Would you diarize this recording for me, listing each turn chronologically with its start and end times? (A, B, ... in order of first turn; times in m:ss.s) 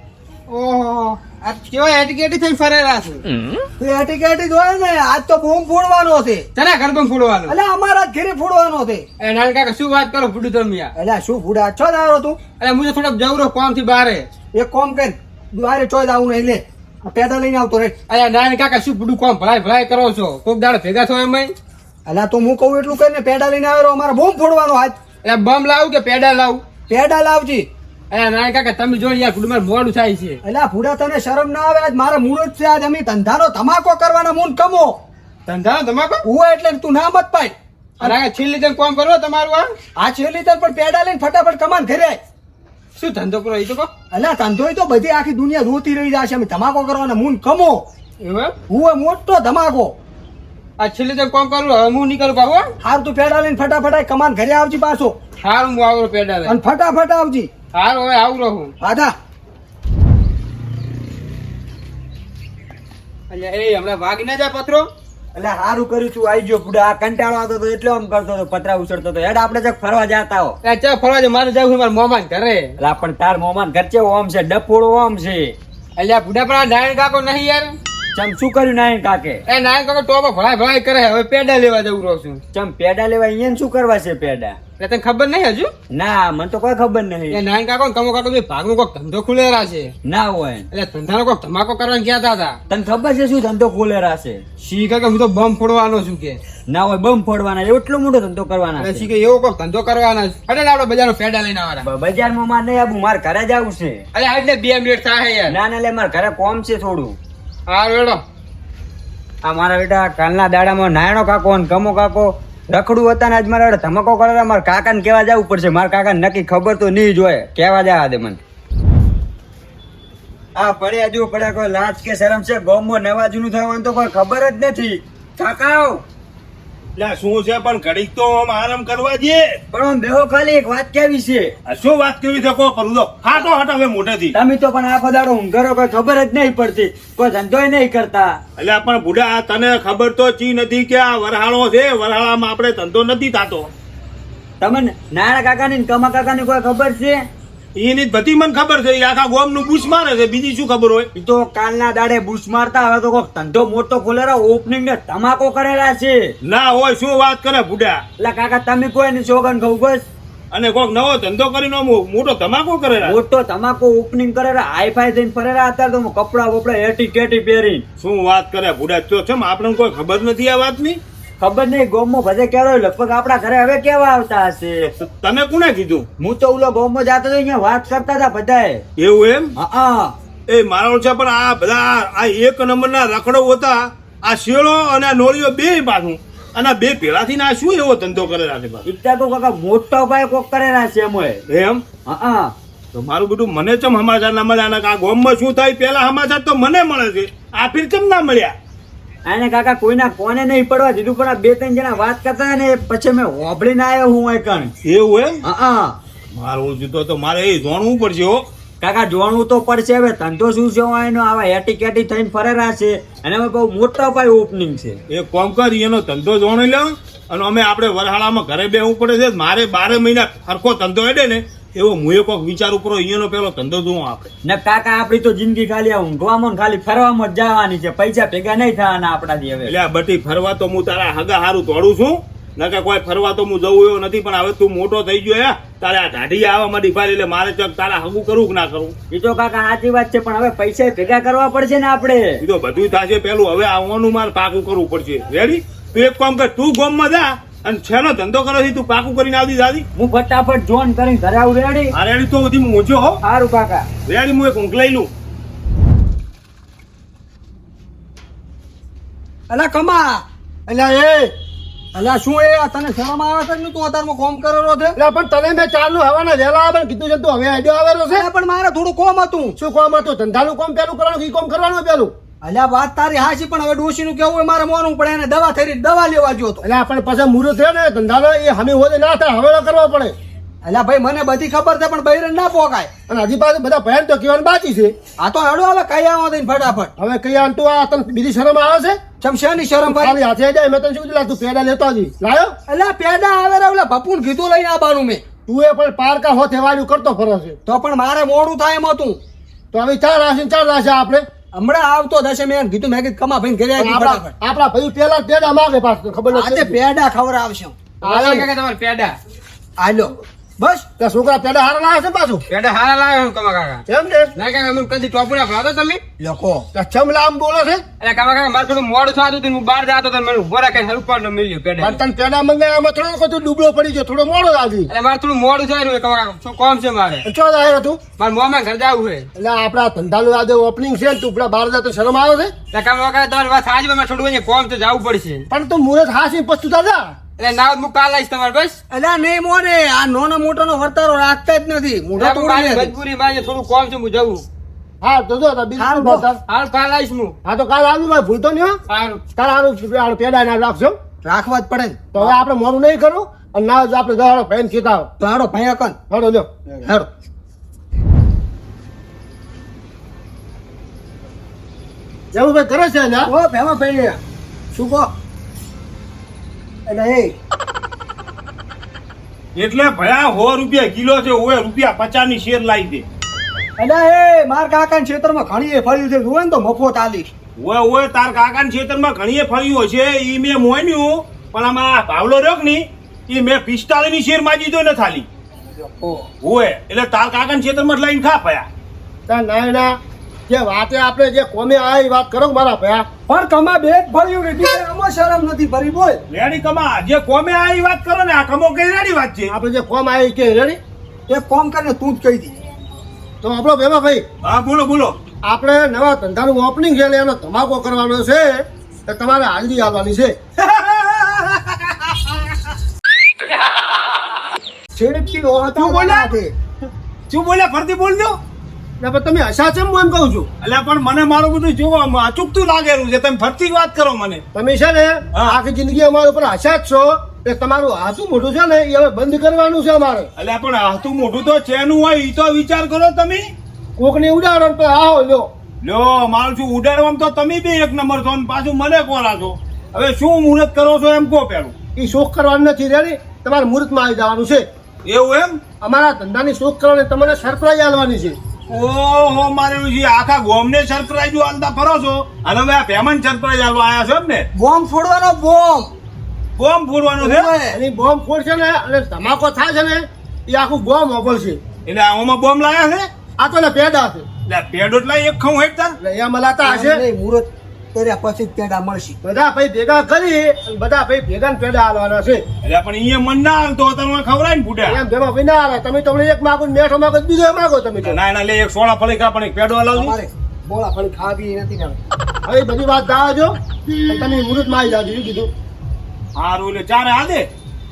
0:00.5-0:03.2 A
0:03.8-0:06.5 B
0:06.6-0:07.6 A
0:07.5-0:09.1 B
0:09.2-0:10.9 A
0:11.0-0:12.4 B
0:12.6-0:14.3 A
0:14.5-0:18.0 B
0:18.1-0:21.5 A
0:22.1-0:25.0 B
0:25.2-0:26.6 A
0:26.9-0:27.7 B
0:28.1-0:30.4 A
0:30.4-0:35.0 B
0:35.5-0:36.2 A
0:36.2-0:38.1 B
0:38.0-0:39.7 A
0:40.0-0:42.2 B
0:43.0-0:43.9 A
0:44.1-0:47.9 B
0:48.2-0:48.5 A
0:48.7-0:50.0 B
0:50.8-0:52.7 A
0:52.8-0:55.2 B
0:55.4-0:56.6 A
0:56.4-0:57.5 B
0:57.8-0:58.7 A
0:58.8-0:59.1 B
1:03.3-1:04.9 A
1:05.4-1:10.6 C
1:10.6-1:12.8 A
1:12.8-1:15.6 C
1:16.0-1:17.8 A
1:18.2-1:19.4 C
1:19.5-1:22.4 A
1:22.5-1:24.6 C
1:24.8-1:25.7 A
1:25.9-1:27.4 C
1:27.3-1:29.9 A
1:30.0-1:30.7 C
1:30.7-1:32.6 A
1:32.7-1:34.4 C
1:34.6-1:36.4 A
1:36.7-1:39.1 C
1:38.8-1:41.9 A
1:41.8-1:44.0 C
1:44.1-1:45.6 A
1:45.5-1:47.2 C
1:47.7-1:48.2 A
1:49.4-1:58.4 C
2:00.6-2:06.0 C
2:07.0-2:09.5 D
2:09.7-2:11.5 C
2:11.7-2:14.3 D
2:14.3-2:18.4 C
2:18.6-2:23.7 D
2:24.6-2:27.2 C
2:27.8-2:31.1 D
2:31.2-2:36.4 C
2:36.4-2:38.0 D
2:38.2-2:40.0 C
2:40.5-2:43.2 D
2:43.0-2:47.8 C
2:48.0-2:51.0 D
2:51.4-2:54.9 C
2:54.9-2:56.1 D
2:56.2-2:58.8 C
2:59.0-2:59.5 D
2:59.6-3:00.2 C
3:00.5-3:08.8 D
3:08.8-3:11.4 C
3:11.5-3:11.8 D
3:12.1-3:12.5 C
3:12.9-3:18.6 D
3:19.3-3:24.7 C
3:24.8-3:25.4 D
3:25.4-3:26.0 C
3:26.4-3:28.4 D
3:28.8-3:35.0 C
3:35.1-3:44.3 D
3:44.4-3:49.7 C
3:49.7-3:59.0 D
3:59.1-4:02.4 C
4:02.4-4:09.8 D
4:10.0-4:11.9 C
4:11.9-4:13.2 D
4:13.2-4:13.9 C
4:14.1-4:15.1 D
4:19.5-4:20.2 B
4:20.7-4:21.3 E
4:22.0-4:25.0 B
4:25.0-4:28.3 E
4:28.1-4:29.6 B
4:29.6-4:32.1 E
4:32.4-4:36.6 B
4:36.6-4:40.1 E
4:40.6-4:42.9 B
4:43.1-4:45.0 E
4:45.2-4:46.9 B
4:47.0-4:49.0 E
4:49.2-4:50.2 B
4:49.8-4:52.6 E
4:52.7-4:55.2 B
4:55.5-4:57.6 E
4:57.7-4:59.2 B
4:59.7-5:01.3 E
5:01.5-5:04.3 B
5:03.8-5:06.8 E
5:06.3-5:08.0 B
5:08.0-5:09.2 A
5:08.0-5:08.5 E
5:09.8-5:10.8 B
5:11.0-5:12.4 E
5:12.5-5:13.8 A
5:13.9-5:14.3 E
5:14.4-5:16.0 A
5:16.2-5:16.7 B
5:16.7-5:17.8 E
5:18.0-5:22.0 A
5:21.8-5:24.9 E
5:24.9-5:27.2 A
5:27.2-5:28.0 E
5:28.2-5:29.3 A
5:29.4-5:32.5 E
5:32.7-5:35.5 A
5:35.5-5:37.2 E
5:37.4-5:38.8 A
5:38.9-5:42.9 B
5:42.2-5:44.5 A
5:45.0-5:46.4 E
5:45.8-5:46.2 B
5:46.5-5:47.4 A
5:47.4-5:48.8 E
5:48.9-5:49.2 A
5:49.4-5:51.0 E
5:51.2-5:52.3 B
5:52.1-5:55.1 E
5:55.2-5:56.0 B
5:56.1-5:56.6 E
6:02.3-6:03.3 E
6:03.3-6:04.2 B
6:04.8-6:05.1 B
6:06.9-6:07.3 B
6:09.6-6:13.0 D
6:13.8-6:17.3 B
6:17.6-6:25.3 D
6:25.8-6:26.3 B
6:26.4-6:28.7 D
6:29.3-6:30.0 E
6:30.5-6:33.1 E
6:33.3-6:36.2 B
6:36.3-6:39.5 D
6:39.5-6:40.8 E
6:41.3-6:42.6 B
6:43.4-6:44.2 E
6:44.4-6:45.2 D
6:45.4-6:50.4 E
6:50.6-6:51.7 D
6:55.0-6:56.5 B
6:55.8-6:56.3 E
6:57.3-6:58.4 D
6:59.0-7:00.5 E
7:00.6-7:04.4 D
7:04.5-7:10.3 E
7:10.4-7:13.4 D
7:14.0-7:15.5 E
7:15.8-7:21.7 D
7:22.0-7:24.6 E
7:25.1-7:25.6 D
7:25.8-7:28.4 E
7:28.7-7:34.5 D
7:34.6-7:35.9 B
7:36.6-7:37.5 D
7:37.2-7:37.8 B
7:37.7-7:41.6 E
7:41.9-7:43.0 D
7:43.4-7:44.2 E
7:44.5-7:46.0 D
7:46.0-7:47.0 E
7:46.6-7:49.2 B
7:49.2-7:52.4 E
7:52.6-7:55.0 D
7:54.9-7:58.2 E
7:58.0-8:00.2 D
8:00.0-8:02.0 B
8:02.5-8:03.5 E
8:04.1-8:05.5 E
8:06.4-8:07.5 D